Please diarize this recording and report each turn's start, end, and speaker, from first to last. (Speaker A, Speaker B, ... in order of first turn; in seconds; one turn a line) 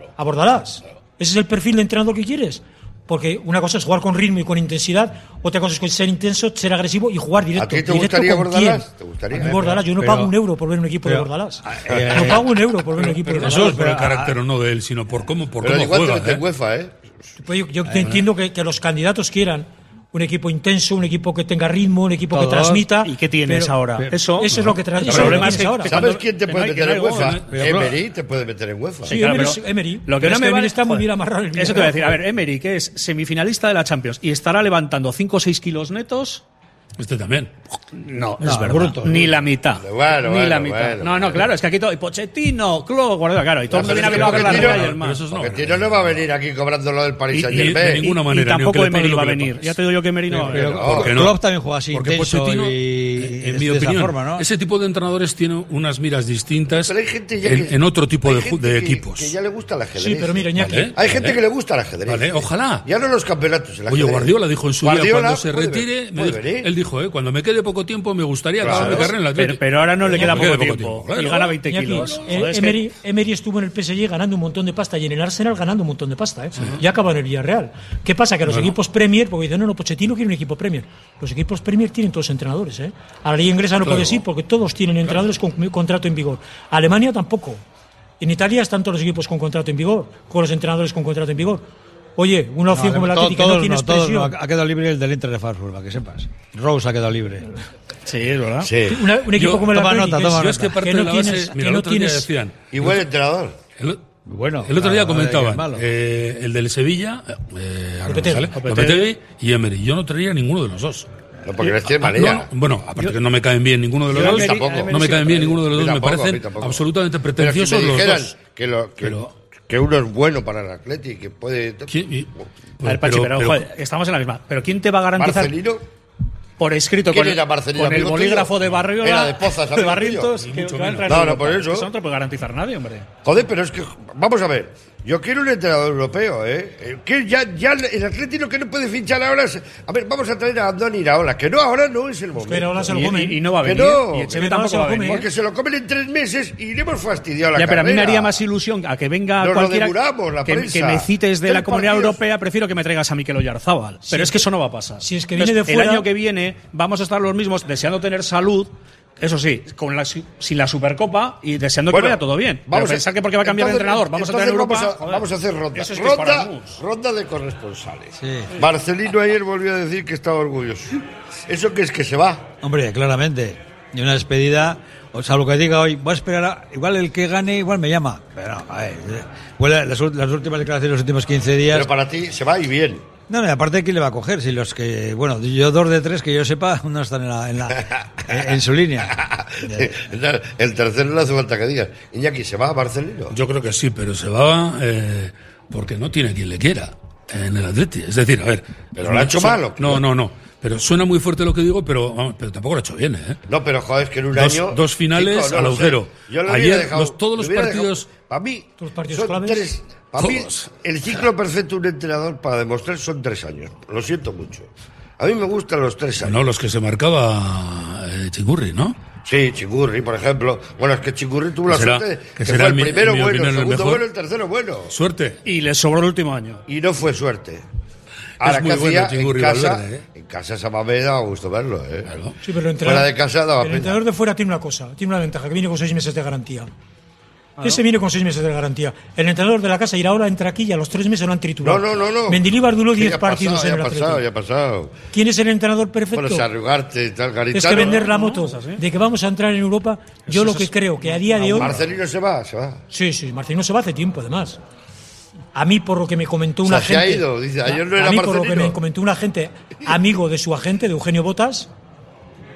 Speaker A: 0.2-13.8
Speaker B: 7.5-9.6
Speaker C: 9.3-10.3
Speaker C: 11.0-14.4
Speaker D: 13.1-16.4
Speaker B: 15.6-16.9
Speaker A: 17.4-26.0
Speaker C: 22.3-22.9
Speaker E: 23.0-27.4
Speaker D: 24.5-25.6
Speaker B: 25.9-29.2
Speaker D: 27.1-27.9
Speaker C: 27.5-28.0
Speaker A: 29.1-32.2
Speaker E: 29.1-36.4
Speaker D: 37.0-37.5
Speaker E: 37.9-45.2
Speaker C: 38.4-39.4
Speaker B: 39.8-41.5
Speaker B: 43.7-48.1
Speaker D: 43.7-46.2
Speaker E: 47.3-50.9
Speaker D: 47.4-49.8
Speaker C: 50.3-54.5
Speaker B: 50.5-51.2
Speaker D: 50.5-59.3
Speaker B: 56.8-66.7
Speaker A: 60.0-60.9
Speaker D: 60.5-61.4
Speaker D: 62.0-62.9
Speaker D: 63.9-72.3
Speaker B: 68.6-69.1
Speaker E: 68.6-72.8
Speaker A: 71.7-87.6
Speaker D: 78.5-78.7
Speaker D: 83.8-84.2
Speaker A: 88.2-91.6
Speaker A: 92.2-94.3
Speaker C: 92.7-97.6
Speaker E: 98.0-98.7
Speaker B: 98.6-99.0
Speaker A: 98.8-102.3
Speaker D: 99.3-103.0
Speaker C: 99.7-100.8
Speaker B: 102.7-103.6
Speaker C: 104.2-105.8
Speaker D: 104.6-111.1
Speaker A: 108.1-108.5
Speaker E: 108.5-109.1
Speaker B: 111.5-112.5
Speaker D: 111.6-118.3
Speaker E: 114.1-115.5
Speaker B: 114.1-121.9
Speaker D: 119.0-119.3
Speaker D: 121.9-123.6
Speaker E: 122.8-125.5
Speaker B: 125.2-125.8
Speaker E: 126.6-133.1
Speaker B: 127.1-130.3
Speaker D: 130.4-131.3
Speaker B: 131.1-131.9
Speaker B: 133.2-143.0
Speaker A: 142.4-143.4
Speaker E: 142.9-145.2
Speaker B: 143.6-144.4
Speaker A: 144.3-145.2
Speaker B: 145.0-148.4
Speaker E: 147.5-166.8
Speaker B: 149.4-152.2
Speaker A: 154.1-154.5
Speaker A: 155.0-156.1
Speaker B: 161.9-172.4
Speaker C: 168.2-168.5
Speaker C: 172.6-181.9
Speaker B: 181.7-183.0
Speaker C: 183.3-190.0
Speaker B: 189.1-193.4
Speaker D: 193.3-203.4
Speaker B: 198.9-200.0
Speaker B: 203.5-214.7
Speaker D: 204.3-208.1
Speaker A: 208.8-209.6
Speaker D: 210.2-211.2
Speaker B: 215.2-216.5
Speaker D: 216.2-218.9
Speaker B: 219.2-224.9
Speaker D: 221.7-224.0
Speaker D: 224.9-225.4
Speaker E: 225.4-226.6
Speaker B: 226.7-227.6
Speaker D: 228.4-230.1
Speaker B: 228.4-232.2
Speaker D: 232.1-232.3
Speaker A: 232.4-236.7
Speaker B: 232.8-234.0
Speaker A: 237.6-244.2
Speaker B: 241.6-244.9
Speaker A: 245.1-246.4
Speaker B: 246.1-248.1
Speaker A: 247.5-251.7
Speaker E: 247.7-248.8
Speaker E: 250.3-251.8
Speaker B: 251.5-252.8
Speaker A: 252.9-254.6
Speaker A: 255.5-261.7
Speaker B: 256.6-258.8